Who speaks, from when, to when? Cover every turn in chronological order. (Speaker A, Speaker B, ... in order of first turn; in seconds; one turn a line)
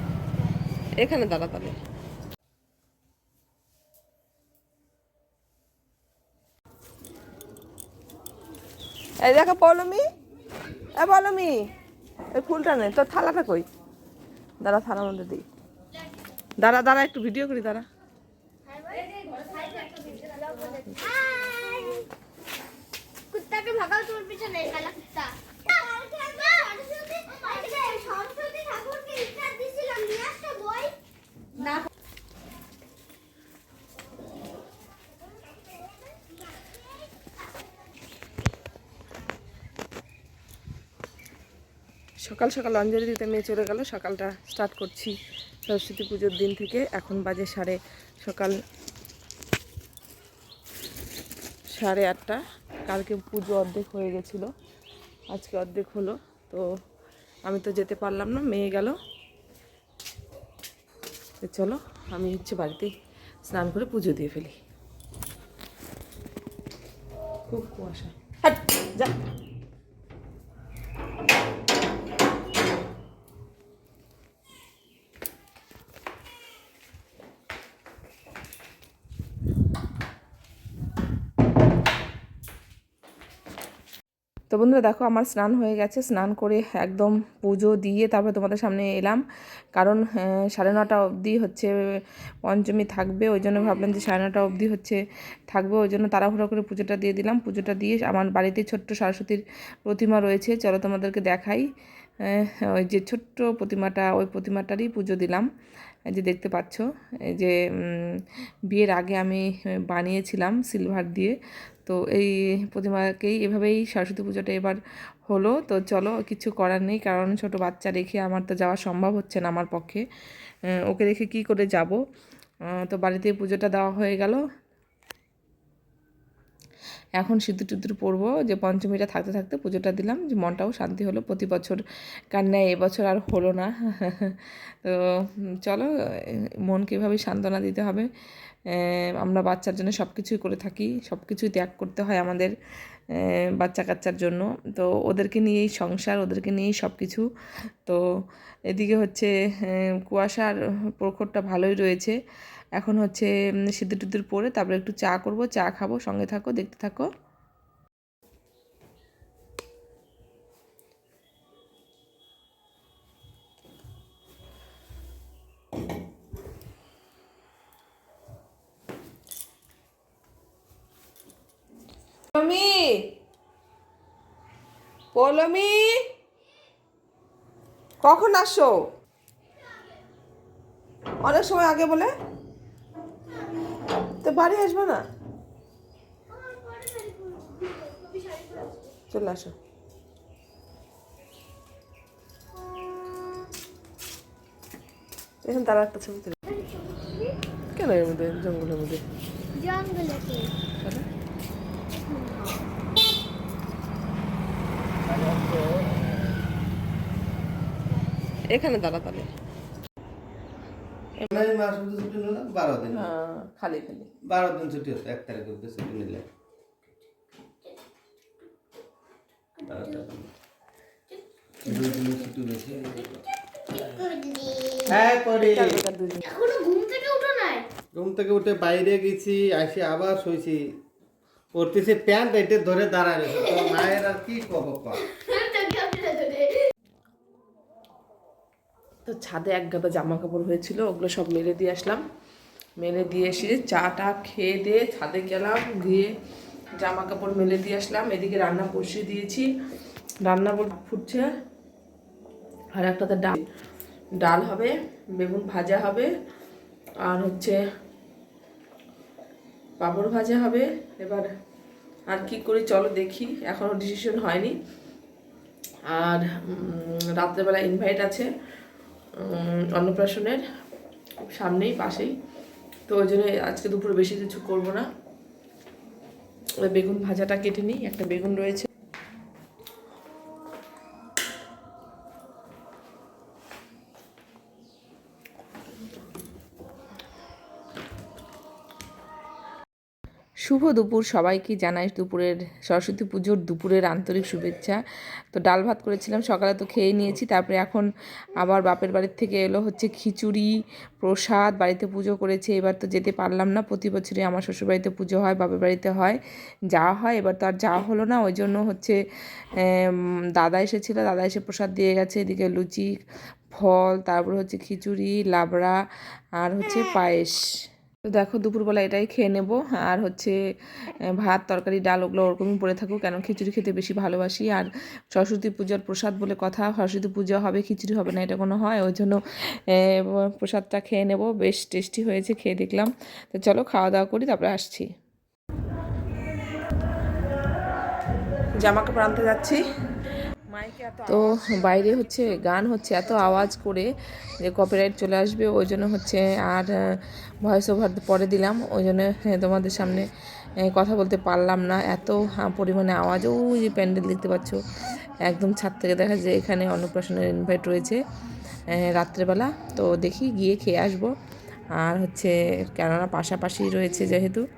Speaker A: 1.0-1.8
Speaker A: 9.2-10.1
Speaker A: 11.0-11.6
Speaker A: 12.3-13.7
Speaker A: 14.6-15.4
Speaker A: 16.6-17.9
Speaker B: 18.7-22.1
Speaker B: 23.3-31.0
Speaker A: 42.2-48.6
Speaker A: 51.7-54.5
Speaker A: 55.3-56.6
Speaker A: 57.5-59.0
Speaker A: 61.4-62.9
Speaker A: 63.5-64.6
Speaker A: 67.5-69.1
Speaker A: 84.5-89.2
Speaker A: 89.8-91.7
Speaker A: 92.5-101.7
Speaker A: 102.2-105.5
Speaker A: 106.1-120.0
Speaker A: 120.9-122.0
Speaker A: 122.7-124.4
Speaker A: 127.2-138.1
Speaker A: 138.7-142.5
Speaker A: 143.1-147.2
Speaker A: 148.7-152.2
Speaker A: 152.8-157.1
Speaker A: 172.3-173.1
Speaker A: 175.1-176.0
Speaker A: 178.0-178.8
Speaker A: 181.2-182.1
Speaker A: 184.2-185.0
Speaker B: 186.3-188.9
Speaker A: 189.1-189.5
Speaker A: 195.4-196.4
Speaker B: 196.5-197.3
Speaker A: 197.7-199.0
Speaker B: 199.5-200.5
Speaker A: 200.8-201.1
Speaker B: 201.9-202.6
Speaker C: 205.1-206.2
Speaker A: 208.5-209.3
Speaker C: 211.3-213.1
Speaker A: 212.9-214.1
Speaker C: 214.3-216.3
Speaker C: 219.7-220.3
Speaker C: 221.6-223.3
Speaker B: 223.7-224.9
Speaker C: 224.8-225.8
Speaker A: 225.4-226.2
Speaker B: 226.2-227.7
Speaker C: 227.9-230.7
Speaker C: 231.5-235.1
Speaker B: 235.1-236.7
Speaker A: 239.1-242.0
Speaker A: 242.8-246.1
Speaker A: 246.8-249.5
Speaker A: 250.2-251.3
Speaker A: 252.7-253.5
Speaker A: 254.2-256.1
Speaker A: 257.0-257.6
Speaker A: 259.8-261.3
Speaker A: 262.1-264.6
Speaker A: 265.9-268.3
Speaker A: 269.2-270.4
Speaker A: 271.3-272.1
Speaker A: 272.9-274.9
Speaker A: 276.6-278.7
Speaker A: 290.4-294.8
Speaker A: 295.3-297.9
Speaker A: 298.4-306.2
Speaker A: 306.7-312.9
Speaker A: 313.5-315.8
Speaker A: 316.4-317.4
Speaker A: 318.1-320.4
Speaker A: 321.1-334.9
Speaker A: 338.6-339.6
Speaker A: 340.5-343.9
Speaker A: 344.4-350.1
Speaker A: 350.7-354.6
Speaker A: 355.2-358.0
Speaker A: 358.7-361.1
Speaker A: 361.8-364.4